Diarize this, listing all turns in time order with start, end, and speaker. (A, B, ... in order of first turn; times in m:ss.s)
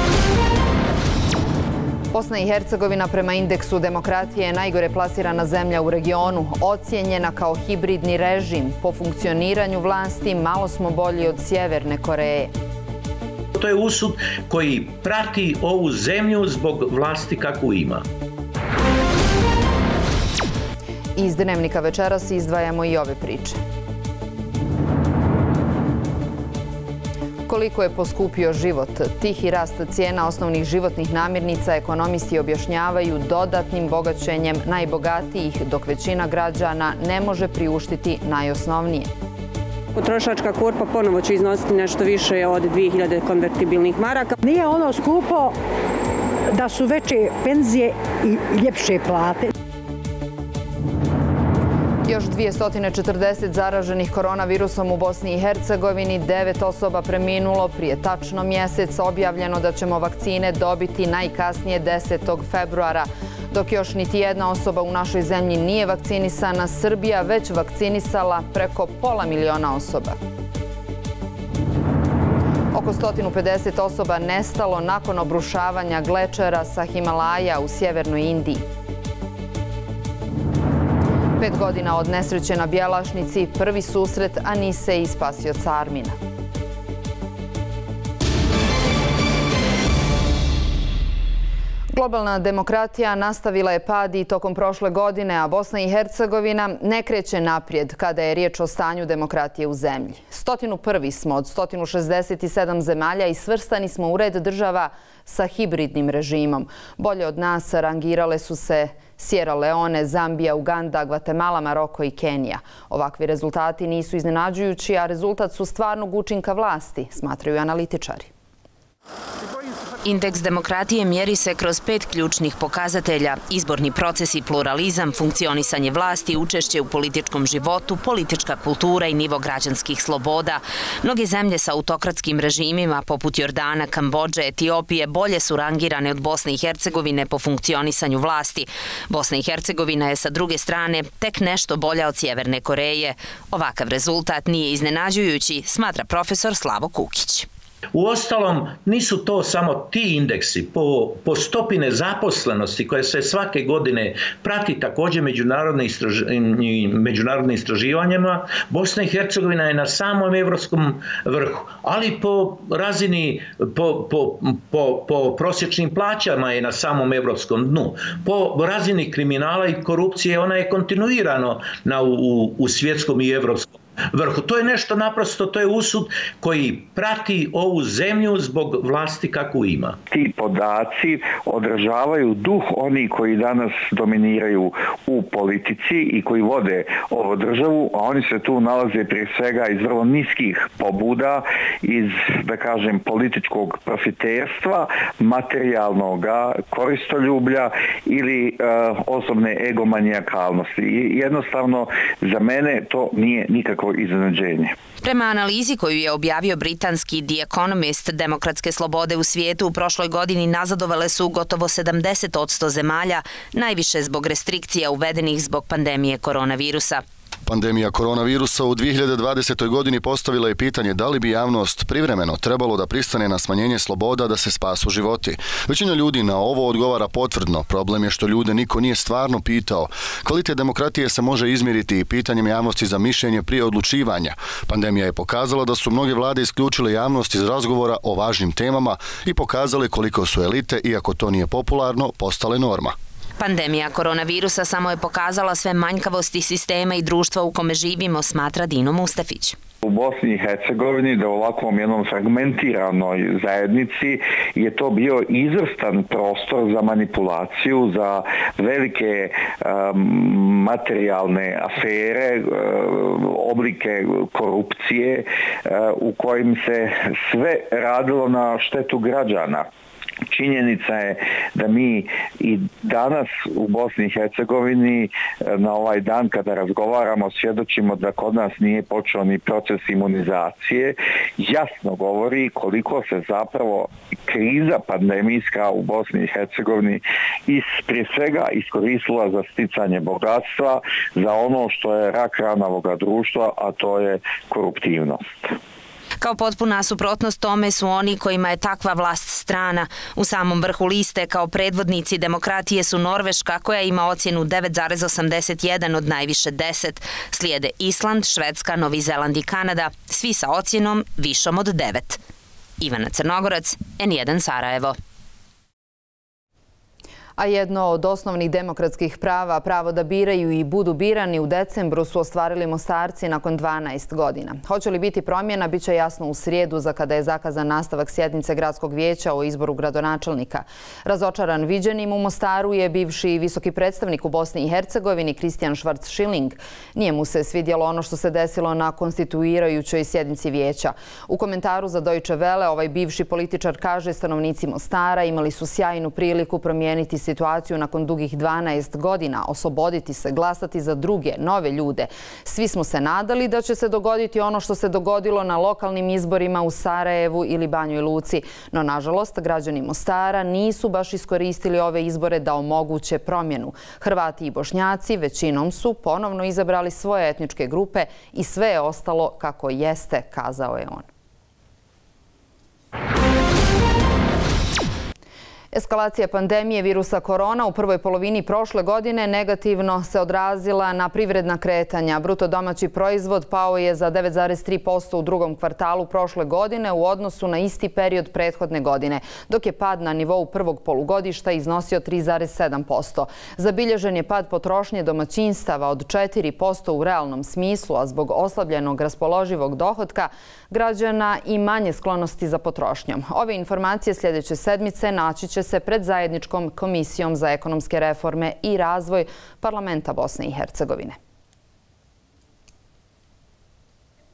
0:02.1-0:12.5 A
0:13.6-0:18.0 B
0:21.2-0:23.6 A
0:27.5-0:39.1 A
0:39.9-0:44.4 C
0:44.4-0:45.5 D
0:46.5-0:49.5 D
0:52.0-1:10.2 A
1:12.7-1:18.6 A
1:21.4-1:26.2 A
1:31.9-1:58.3 A
2:00.0-2:27.5 E
2:27.9-3:00.0 B
3:00.1-3:24.7 F
3:25.0-3:37.0 E
3:37.4-4:03.0 G
4:03.4-4:09.6 E
4:09.8-4:29.7 F
4:30.3-4:55.5 F
4:56.2-5:12.2 E
5:12.8-5:15.0 E
5:17.4-6:11.1 A
6:15.7-6:51.2 A